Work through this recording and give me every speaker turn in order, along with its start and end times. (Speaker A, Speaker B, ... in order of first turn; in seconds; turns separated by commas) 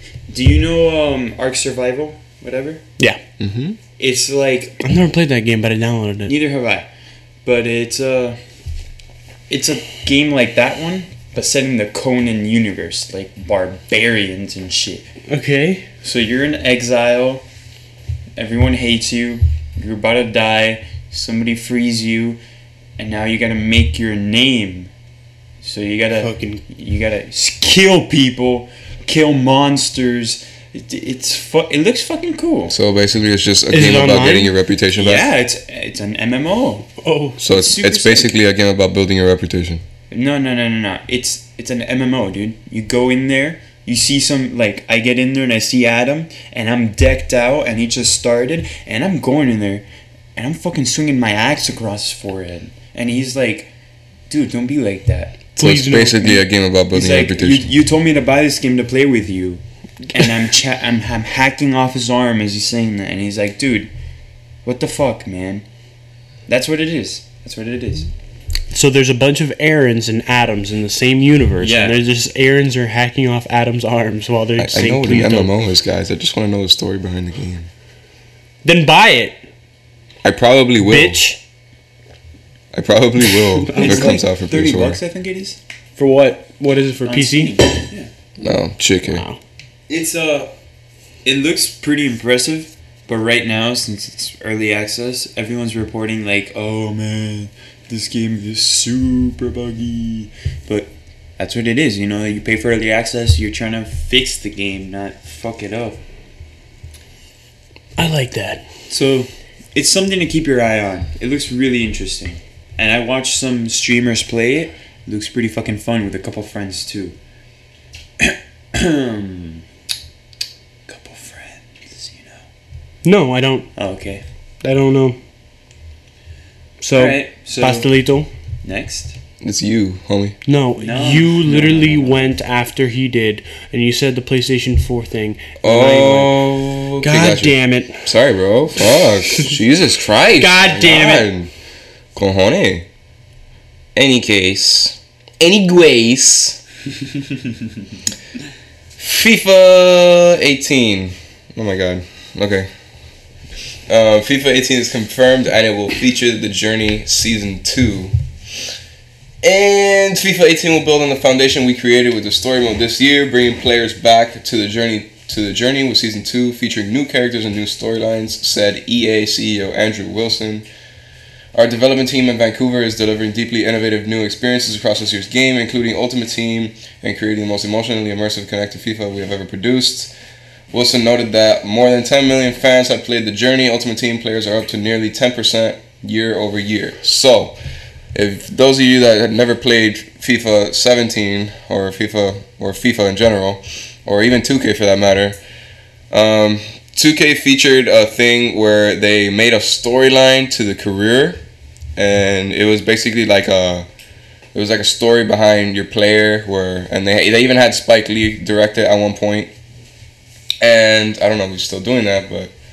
Speaker A: 0.3-2.8, Speaker B: 3.4-3.8, Speaker A: 4.0-4.8, Speaker C: 4.8-6.3, Speaker A: 6.3-6.9, Speaker A: 7.4-8.4, Speaker A: 9.5-15.1, Speaker C: 15.3-15.8, Speaker A: 16.0-17.4, Speaker A: 18.4-22.4, Speaker A: 23.0-24.9, Speaker A: 25.6-32.7, Speaker C: 26.2-26.6, Speaker B: 32.7-35.3, Speaker C: 33.7-34.5, Speaker A: 35.0-36.9, Speaker C: 37.0-37.4, Speaker B: 37.4-39.8, Speaker A: 37.5-38.4, Speaker A: 40.1-49.8, Speaker A: 50.4-53.7, Speaker A: 54.3-55.4, Speaker B: 55.5-57.7, Speaker C: 55.6-56.4, Speaker A: 56.9-63.9, Speaker A: 64.6-65.6, Speaker A: 66.5-68.1, Speaker C: 68.7-75.5, Speaker A: 71.6-72.0, Speaker B: 74.6-77.7, Speaker C: 78.6-79.4, Speaker B: 80.2-81.2, Speaker C: 80.8-81.4, Speaker B: 82.7-85.0, Speaker C: 83.2-84.2, Speaker A: 83.7-85.6, Speaker C: 86.0-87.6, Speaker A: 87.0-88.1, Speaker B: 88.4-89.2, Speaker C: 89.1-89.4, Speaker A: 89.9-90.5, Speaker A: 91.2-106.0, Speaker C: 108.0-108.6, Speaker A: 108.9-117.2, Speaker A: 118.2-119.6, Speaker A: 120.9-122.4, Speaker C: 123.0-123.7, Speaker A: 123.8-124.2, Speaker C: 124.6-125.2, Speaker C: 126.8-128.3, Speaker A: 126.9-127.9, Speaker A: 128.6-129.2, Speaker B: 129.4-130.3, Speaker C: 130.4-138.1, Speaker A: 130.8-132.3, Speaker B: 135.6-141.5, Speaker C: 138.9-139.5, Speaker C: 140.3-141.3, Speaker B: 142.1-142.8, Speaker B: 143.9-146.6, Speaker B: 149.0-152.7, Speaker B: 153.9-158.1, Speaker B: 159.4-170.7, Speaker B: 171.5-180.1, Speaker B: 180.7-187.6, Speaker B: 188.1-195.4, Speaker B: 196.1-201.4, Speaker B: 201.9-203.9, Speaker B: 204.5-209.5, Speaker B: 210.6-212.5